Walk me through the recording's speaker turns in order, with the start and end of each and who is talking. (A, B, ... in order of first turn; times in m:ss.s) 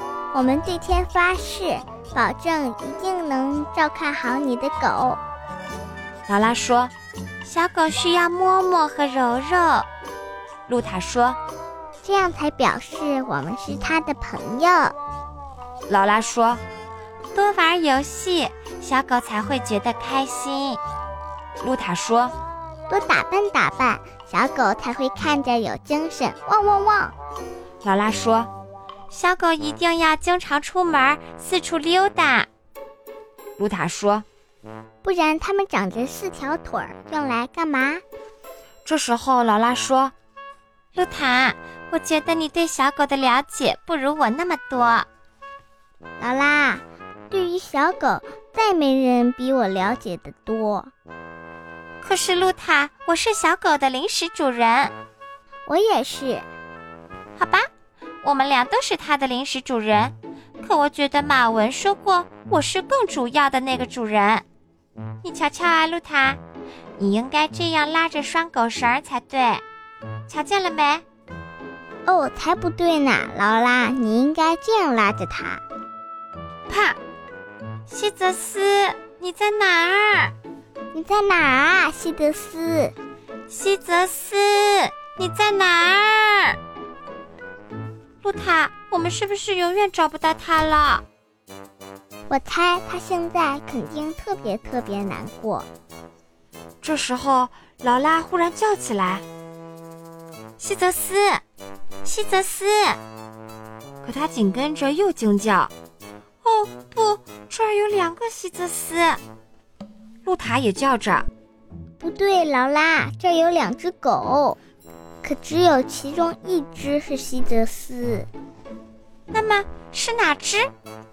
0:00.3-0:05.2 A
0:06.3-0:06.9 B
0:07.4-0:09.9 B
0:10.7-0:11.4 B
0:12.0-0:15.0 A
0:15.9-0:16.6 B
0:17.3-0:20.8 B
0:21.6-0:22.3 B
0:22.9-0:27.1 A
0:27.8-0:28.5 B
0:29.1-0:32.5 B
0:33.6-0:34.2 B
0:35.0-0:38.0 A
0:38.8-0:40.1 B
0:40.9-0:45.1 B
0:46.2-0:50.9 A
0:52.0-0:54.9 B
0:55.6-0:56.5 A
0:57.4-0:57.7 B
0:58.2-1:04.4 B
1:05.2-1:06.4 B
1:07.0-1:09.6 B
1:10.3-1:11.0 B
1:12.0-1:15.6 A
1:16.7-1:17.0 B
1:17.9-1:20.3 B
1:20.9-1:22.9 A
1:23.5-1:26.6 B
1:28.2-1:31.0 B
1:32.3-1:35.7 A
1:36.8-1:39.2 B
1:40.6-1:41.4 B
1:42.0-1:43.0 B
1:44.0-1:45.7 B
1:46.4-1:49.2 B
1:50.2-1:51.3 B
1:52.0-1:54.6 A
1:55.2-1:58.3 A
1:59.3-2:00.7 B